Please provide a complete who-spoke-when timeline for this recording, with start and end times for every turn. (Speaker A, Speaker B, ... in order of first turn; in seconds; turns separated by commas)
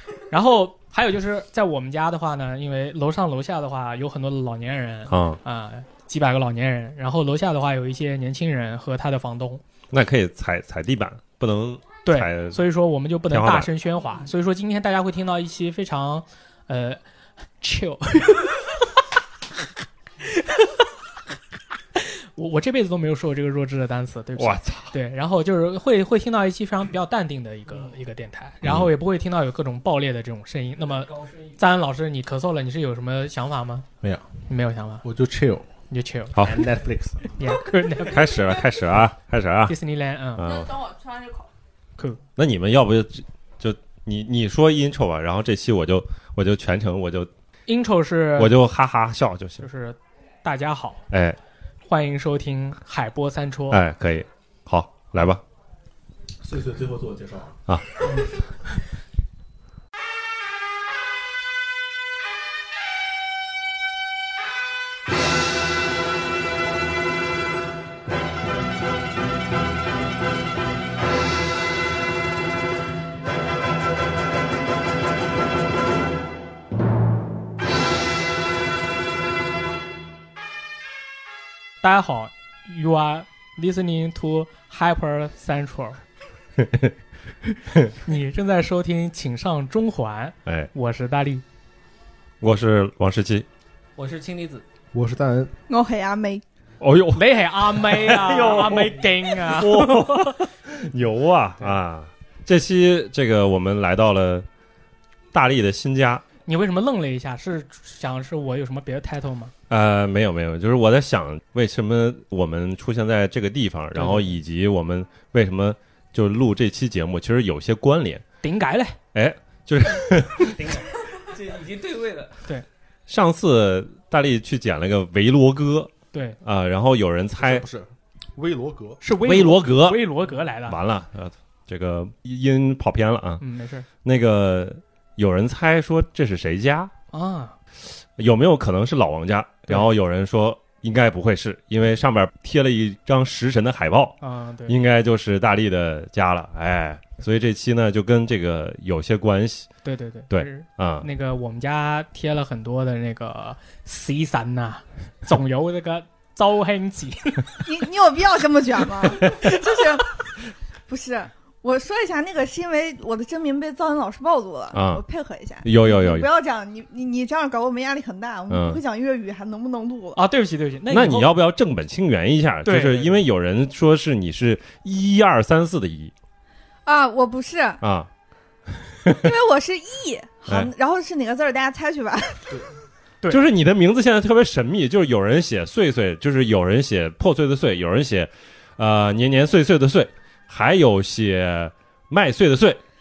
Speaker A: 0.3-9.6, Speaker B: 5.1-5.4, Speaker B: 9.9-12.6, Speaker A: 12.1-17.0, Speaker B: 13.3-13.7, Speaker A: 17.6-18.7, Speaker A: 20.2-20.9, Speaker A: 22.0-33.9, Speaker B: 24.4-24.9, Speaker B: 28.6-28.9, Speaker C: 30.9-31.6, Speaker A: 34.5-35.0, Speaker D: 35.0-35.7, Speaker A: 35.9-36.7, Speaker B: 36.4-36.7, Speaker D: 36.5-37.2, Speaker A: 37.3-38.4, Speaker B: 38.0-39.8, Speaker A: 39.7-40.5, Speaker B: 40.4-40.7, Speaker E: 40.4-41.5, Speaker B: 42.4-47.3, Speaker A: 47.7-48.6, Speaker B: 48.4-49.7, Speaker A: 49.6-51.0, Speaker B: 51.1-51.4, Speaker A: 51.9-53.8, Speaker B: 53.7-55.4, Speaker D: 56.4-57.6, Speaker A: 81.8-86.0, Speaker A: 88.0-91.4, Speaker B: 90.5-90.7, Speaker B: 92.4-93.5, Speaker C: 94.0-94.6, Speaker D: 94.9-95.5, Speaker E: 95.7-96.4, Speaker B: 96.8-104.5, Speaker A: 97.1-100.1, Speaker B: 105.3-106.2, Speaker A: 106.5-109.5, Speaker B: 109.7-118.2, Speaker A: 114.0-114.4, Speaker A: 118.4-119.0, Speaker B: 119.1-120.8, Speaker C: 120.6-122.5, Speaker B: 123.1-125.9, Speaker A: 126.1-126.4, Speaker B: 126.4-127.6, Speaker D: 127.4-129.0, Speaker A: 129.0-130.8, Speaker B: 129.2-133.4, Speaker A: 133.4-133.8, Speaker B: 134.0-136.9, Speaker A: 137.1-137.6, Speaker B: 138.2-149.7, Speaker A: 144.2-144.8, Speaker A: 149.8-157.6, Speaker B: 150.3-151.1, Speaker E: 157.7-160.2, Speaker E: 160.9-170.2, Speaker B: 164.7-165.0, Speaker B: 165.6-166.3, Speaker B: 168.5-168.8, Speaker A: 170.2-171.3, Speaker B: 170.9-176.1, Speaker A: 172.7-173.2, Speaker E: 176.9-177.8, Speaker B: 177.8-178.1, Speaker B: 178.8-179.2, Speaker E: 179.2-182.7, Speaker B: 183.3-192.8